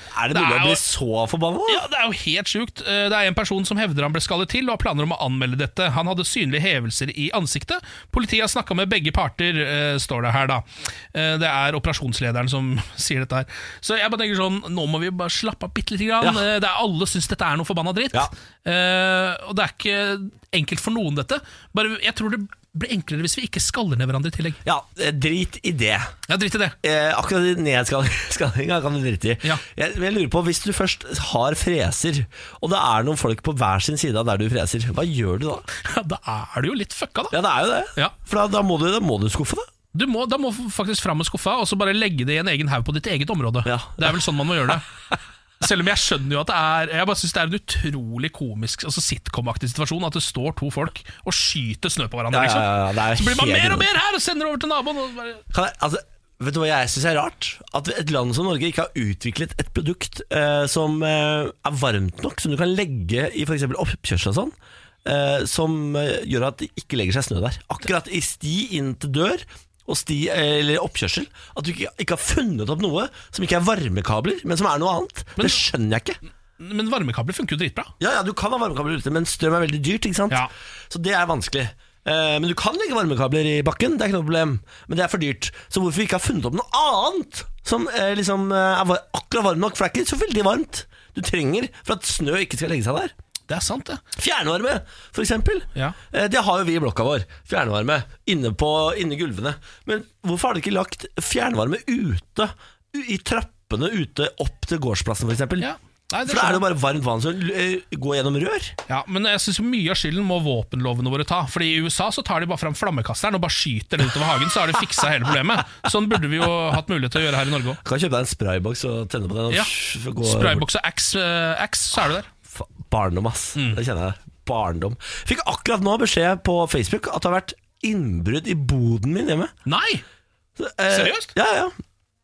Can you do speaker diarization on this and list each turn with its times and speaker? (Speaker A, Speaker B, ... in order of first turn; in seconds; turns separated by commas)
Speaker A: 0.1-1.8, Speaker B: 0.3-0.8, Speaker B: 1.7-24.6, Speaker A: 24.6-26.1, Speaker B: 26.3-26.8, Speaker A: 26.8-35.6, Speaker B: 35.8-37.3, Speaker A: 37.3-39.6, Speaker B: 39.9-44.8, Speaker A: 43.6-44.2, Speaker B: 45.6-55.4, Speaker A: 52.3-53.9, Speaker A: 55.5-64.5, Speaker A: 65.0-76.2, Speaker B: 75.4-75.6, Speaker B: 76.6-77.9, Speaker A: 78.0-93.1, Speaker B: 93.5-94.0, Speaker A: 94.2-105.7, Speaker B: 105.6-106.6, Speaker A: 106.2-108.7, Speaker B: 108.9-117.8, Speaker A: 117.8-120.7, Speaker B: 119.5-122.3, Speaker A: 122.5-129.5, Speaker B: 123.5-123.8, Speaker B: 129.7-130.0, Speaker A: 130.6-131.7, Speaker B: 130.9-131.3